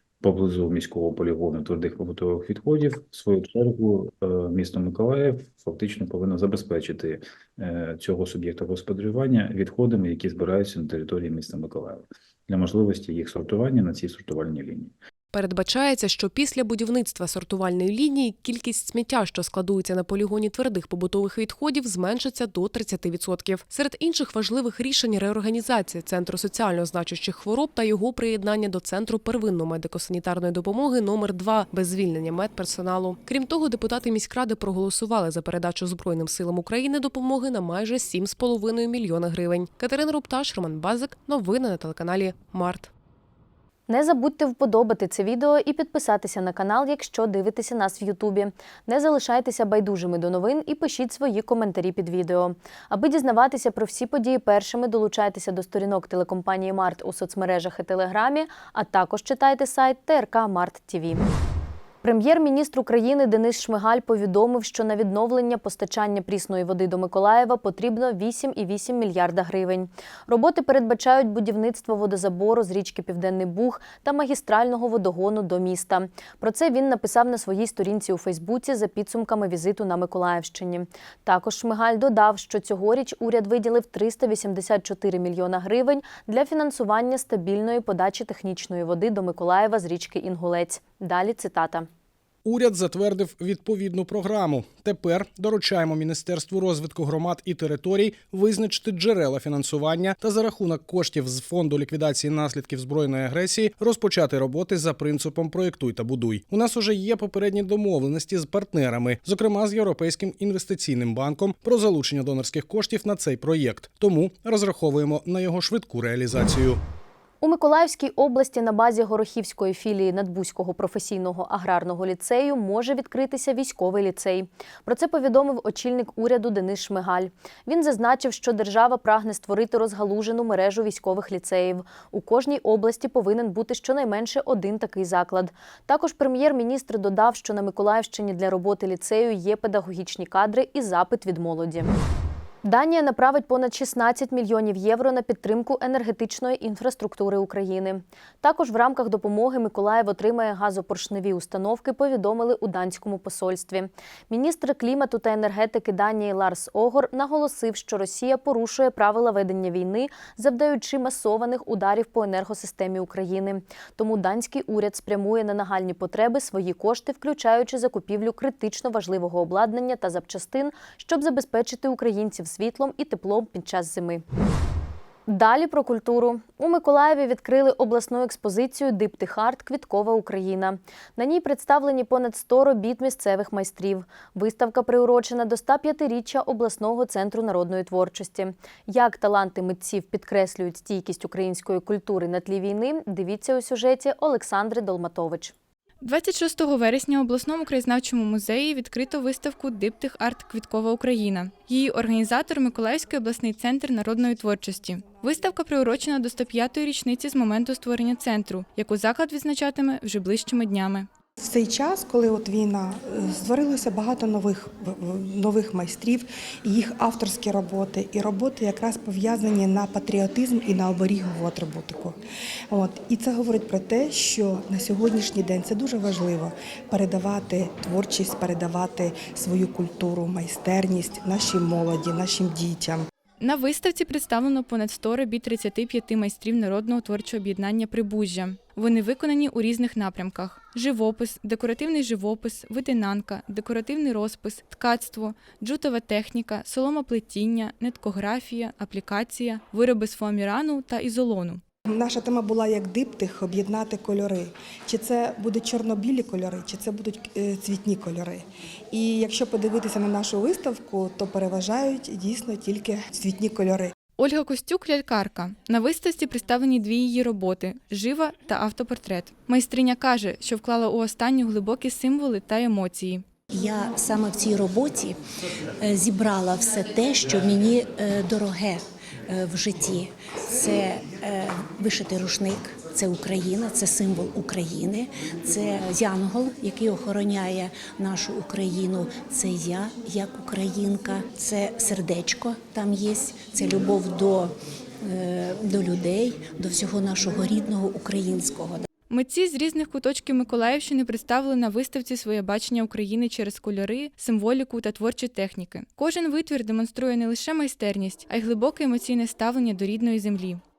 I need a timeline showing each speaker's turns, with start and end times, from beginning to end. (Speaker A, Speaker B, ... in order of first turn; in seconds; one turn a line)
Speaker A: 0.2-14.9
Speaker B: 15.3-42.9
Speaker C: 43.9-61.2
Speaker C: 62.0-91.9
Speaker D: 92.4-116.8
Speaker C: 117.4-141.9
Speaker C: 142.6-174.2
Speaker C: 175.3-195.5
Speaker E: 196.0-211.1
Speaker F: 211.4-222.2
Speaker F: 222.7-233.1
Speaker E: 233.4-251.6
Speaker F: 251.9-263.9
Speaker E: 264.2-273.2
Speaker G: 273.5-275.2
Speaker G: 275.8-298.9
Speaker E: 299.1-310.6